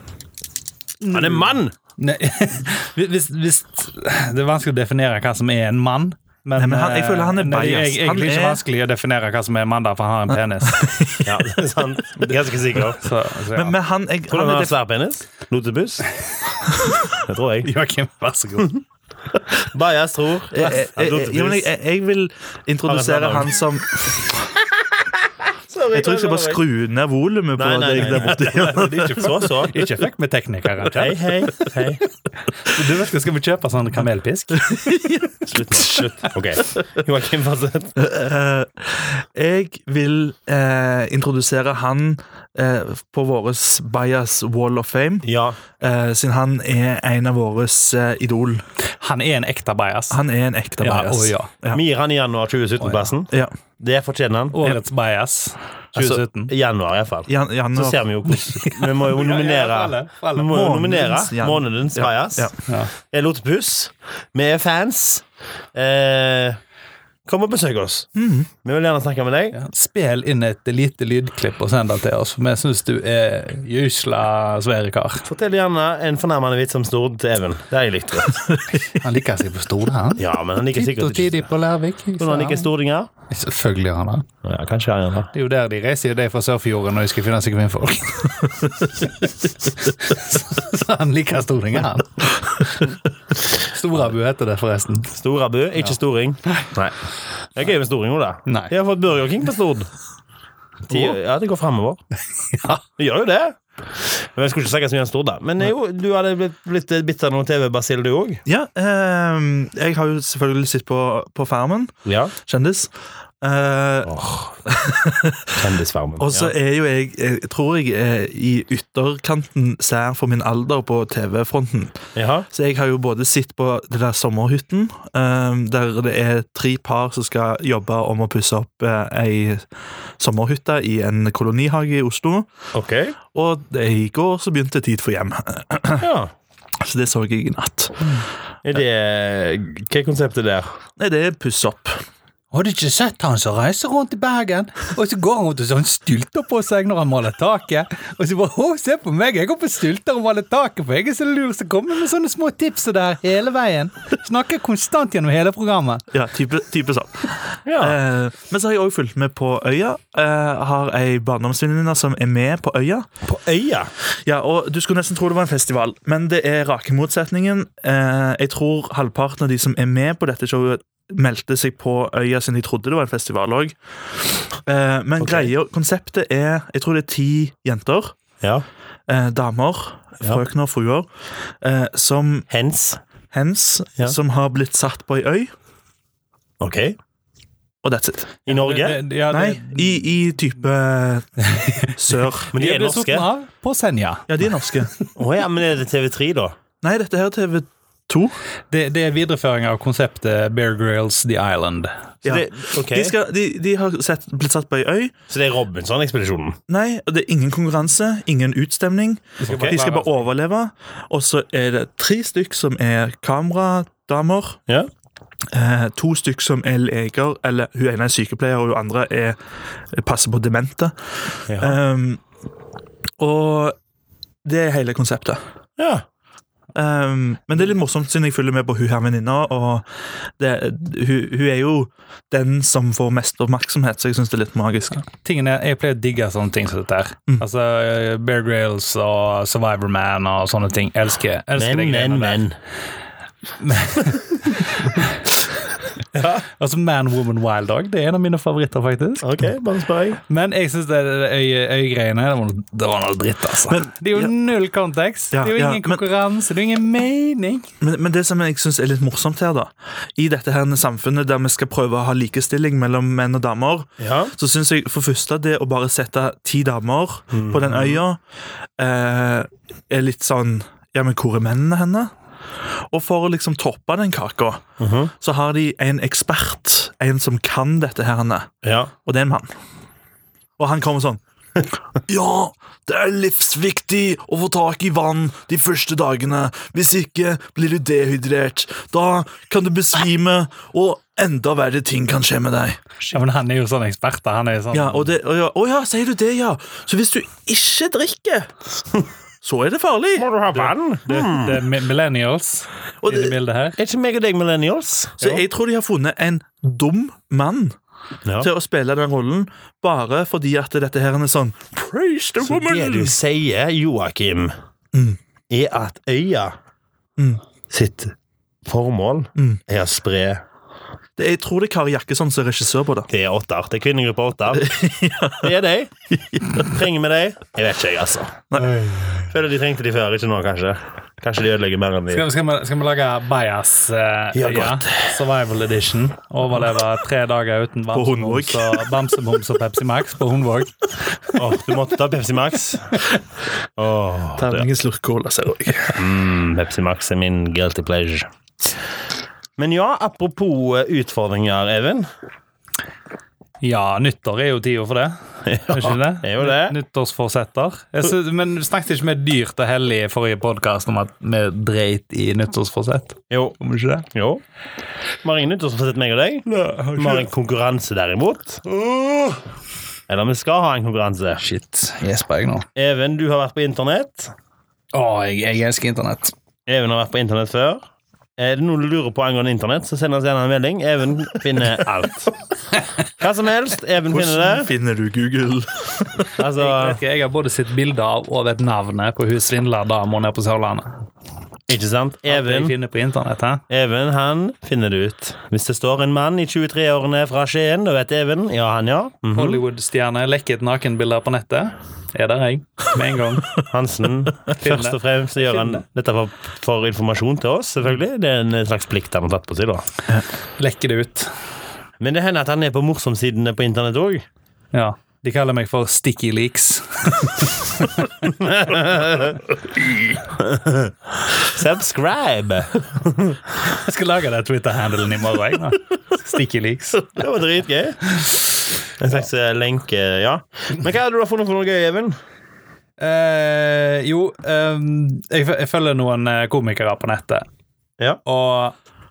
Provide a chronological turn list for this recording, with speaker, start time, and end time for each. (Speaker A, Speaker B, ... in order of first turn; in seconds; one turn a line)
Speaker A: 1.0-1.6
Speaker B: 1.1-1.7
Speaker C: 2.0-10.9
Speaker A: 6.6-8.6
Speaker A: 10.7-11.4
Speaker B: 11.2-13.0
Speaker C: 12.9-13.8
Speaker A: 13.6-14.8
Speaker B: 14.3-16.1
Speaker B: 17.1-17.7
Speaker C: 17.6-18.7
Speaker B: 19.6-21.7
Speaker A: 20.5-24.4
Speaker B: 22.9-23.6
Speaker B: 24.8-25.1
Speaker B: 25.7-26.6
Speaker A: 25.9-29.3
Speaker B: 27.6-29.9
Speaker C: 29.7-31.7
Speaker B: 30.9-32.0
Speaker C: 32.6-35.1
Speaker A: 34.7-36.1
Speaker B: 35.5-38.0
Speaker A: 38.0-45.3
Speaker B: 45.2-45.6
Speaker A: 45.8-48.6
Speaker C: 48.9-50.2
Speaker A: 50.1-51.8
Speaker C: 50.8-51.5
Speaker B: 51.7-54.7
Speaker C: 52.8-53.1
Speaker C: 54.5-56.5
Speaker B: 56.5-66.6
Speaker A: 57.3-58.0
Speaker C: 58.3-60.6
Speaker A: 60.5-62.5
Speaker B: 67.3-68.1
Speaker A: 68.2-68.5
Speaker B: 68.6-69.6
Speaker C: 69.5-75.3
Speaker B: 75.3-78.5
Speaker C: 78.7-82.7
Speaker B: 80.2-81.5
Speaker B: 82.2-83.1
Speaker C: 83.3-84.3
Speaker B: 84.4-85.3
Speaker C: 85.3-92.9
Speaker C: 93.7-95.1
Speaker B: 95.2-97.0
Speaker B: 97.5-99.9
Speaker C: 98.5-98.7
Speaker B: 100.9-102.0
Speaker C: 102.5-102.8
Speaker B: 103.0-108.4
Speaker A: 108.5-114.1
Speaker B: 112.1-112.3
Speaker B: 114.1-114.6
Speaker A: 114.7-115.7
Speaker B: 115.6-116.5
Speaker A: 116.2-129.7
Speaker B: 122.2-122.5
Speaker A: 130.2-132.5
Speaker B: 132.7-133.2
Speaker A: 133.3-136.1
Speaker B: 136.0-136.3
Speaker A: 136.8-138.1
Speaker B: 138.6-140.7
Speaker A: 141.0-142.0
Speaker C: 142.5-156.1
Speaker A: 156.1-163.1
Speaker B: 157.7-158.0
Speaker B: 163.2-163.9
Speaker A: 164.2-173.8
Speaker A: 174.7-178.2
Speaker B: 175.2-175.5
Speaker A: 179.1-182.5
Speaker B: 182.5-183.0
Speaker A: 183.3-185.5
Speaker B: 186.6-187.0
Speaker A: 187.8-188.4
Speaker B: 188.5-189.0
Speaker C: 188.5-190.0
Speaker A: 189.3-192.5
Speaker C: 191.5-191.9
Speaker B: 192.5-193.3
Speaker C: 192.5-194.3
Speaker A: 194.3-194.9
Speaker B: 195.2-196.6
Speaker A: 196.8-198.4
Speaker C: 198.7-201.9
Speaker A: 202.2-205.1
Speaker B: 202.2-203.1
Speaker B: 205.3-206.6
Speaker A: 206.7-214.6
Speaker C: 209.4-210.2
Speaker B: 209.5-209.8
Speaker A: 215.5-219.4
Speaker A: 219.9-222.2
Speaker B: 221.5-221.8
Speaker A: 223.2-223.8
Speaker A: 224.4-225.4
Speaker B: 225.8-226.0
Speaker A: 226.8-235.0
Speaker C: 235.2-242.4
Speaker B: 241.6-242.6
Speaker C: 243.6-245.1
Speaker B: 246.2-246.4
Speaker C: 246.5-249.2
Speaker B: 249.2-250.2
Speaker C: 250.3-257.7
Speaker A: 253.7-254.3
Speaker A: 255.3-256.0
Speaker A: 257.8-268.2
Speaker B: 264.0-264.3
Speaker B: 267.3-268.0
Speaker A: 268.8-272.1
Speaker A: 272.9-274.6
Speaker B: 274.8-275.1
Speaker A: 275.2-278.5
Speaker B: 278.6-278.9
Speaker A: 279.1-279.5
Speaker A: 280.6-281.2
Speaker A: 282.0-292.9
Speaker C: 293.1-295.1
Speaker A: 294.7-298.5
Speaker A: 299.4-300.3
Speaker B: 300.2-301.6
Speaker C: 300.5-303.8
Speaker A: 303.0-303.3
Speaker B: 303.8-305.4
Speaker A: 305.2-307.8
Speaker A: 308.4-313.2
Speaker B: 312.5-314.5
Speaker A: 314.9-315.2
Speaker B: 315.5-316.6
Speaker B: 317.7-318.1
Speaker B: 318.6-320.4
Speaker A: 321.2-323.1
Speaker B: 323.1-324.7
Speaker A: 324.5-325.5
Speaker B: 325.4-325.9
Speaker A: 326.1-326.7
Speaker B: 326.5-328.5
Speaker A: 328.5-328.8
Speaker C: 328.6-329.3
Speaker B: 329.3-332.3
Speaker C: 332.1-341.3
Speaker B: 334.3-335.1
Speaker A: 337.9-338.9
Speaker B: 341.4-343.1
Speaker B: 343.8-344.7
Speaker A: 344.4-346.0
Speaker B: 345.9-348.3
Speaker B: 349.6-352.1
Speaker C: 353.6-364.1
Speaker B: 355.5-356.8
Speaker B: 363.3-363.6
Speaker B: 364.1-364.4
Speaker B: 365.2-368.6
Speaker A: 366.7-367.2
Speaker C: 368.7-369.4
Speaker B: 370.1-371.5
Speaker C: 371.5-372.7
Speaker B: 372.8-374.3
Speaker C: 374.9-376.3
Speaker B: 376.7-377.8
Speaker B: 378.4-382.4
Speaker B: 383.2-384.7
Speaker A: 384.1-386.3
Speaker B: 386.4-387.0
Speaker C: 386.6-391.0
Speaker B: 391.7-392.7
Speaker C: 392.3-393.6
Speaker B: 393.7-399.6
Speaker C: 399.3-403.6
Speaker B: 403.6-409.9
Speaker C: 404.6-405.8
Speaker C: 410.6-411.3
Speaker B: 412.0-414.2
Speaker C: 414.7-418.1
Speaker B: 418.4-419.4
Speaker B: 420.4-423.4
Speaker C: 423.7-427.1
Speaker B: 427.0-428.5
Speaker B: 429.0-432.2
Speaker C: 433.0-437.5
Speaker C: 438.2-438.8